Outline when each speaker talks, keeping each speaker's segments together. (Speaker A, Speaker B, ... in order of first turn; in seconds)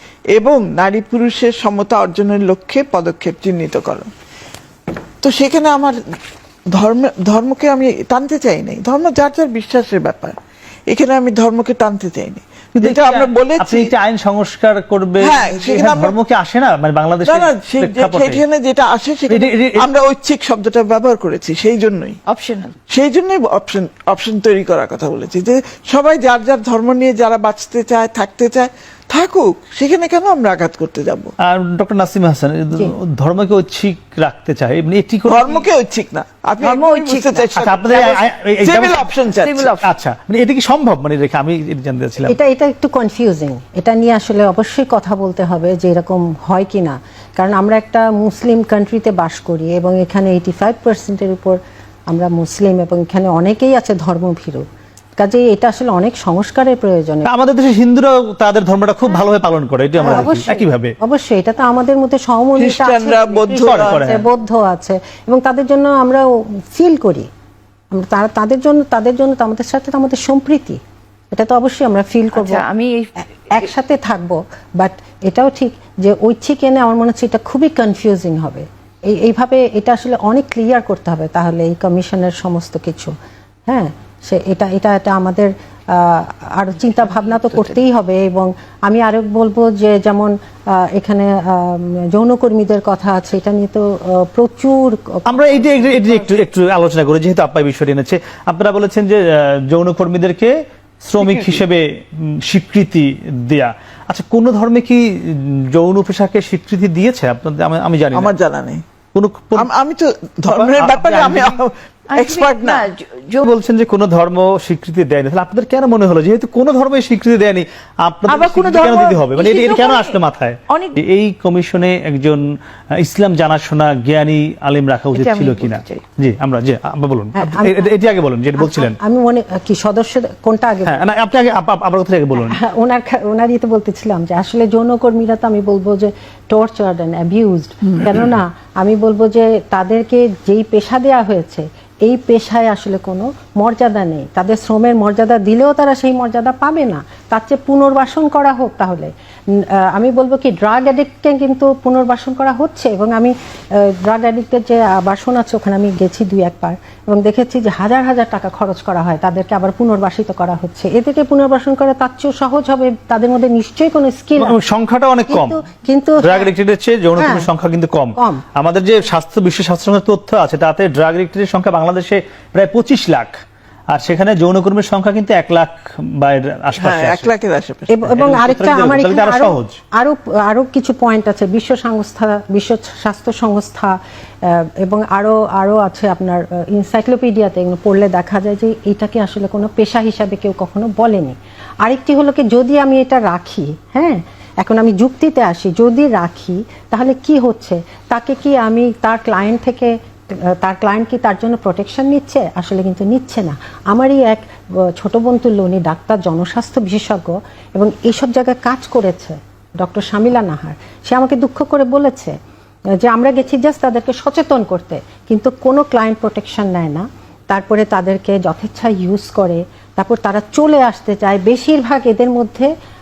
Speaker A: 0.3-4.1, 5.2-6.0, 6.7-10.3, 10.9-13.9, 15.2-16.1, 17.3-22.2, 22.9-31.3, 35.3-39.8, 62.6-64.0, 101.2-101.6, 108.1-108.8, 109.6-112.9, 176.8-177.9
Speaker B: 12.8-18.4, 19.3-19.9, 31.4-35.6, 37.5-39.0, 39.8-42.4, 57.3-60.9, 63.6-64.2, 95.3-108.3, 109.1-109.7, 110.5-111.6, 113.4-129.0, 130.9-132.6, 164.4-165.6, 166.2-173.4, 173.9-177.3, 178.1-179.8
Speaker C: 22.3-22.7, 36.6-37.5, 39.3-39.9, 72.3-73.7, 112.1-113.4, 118.3-120.2, 120.7-121.0, 125.1-126.0
Speaker D: 42.2-51.6, 52.1-54.7, 55.2-57.3, 60.0-67.3, 67.9-70.8, 71.3-72.7, 73.5-83.1, 83.7-96.4, 127.3-128.0, 128.6-131.0, 132.4-164.6, 165.3-166.5, 167.2-167.5, 168.2-168.4, 177.9-212.4, 213.0-222.7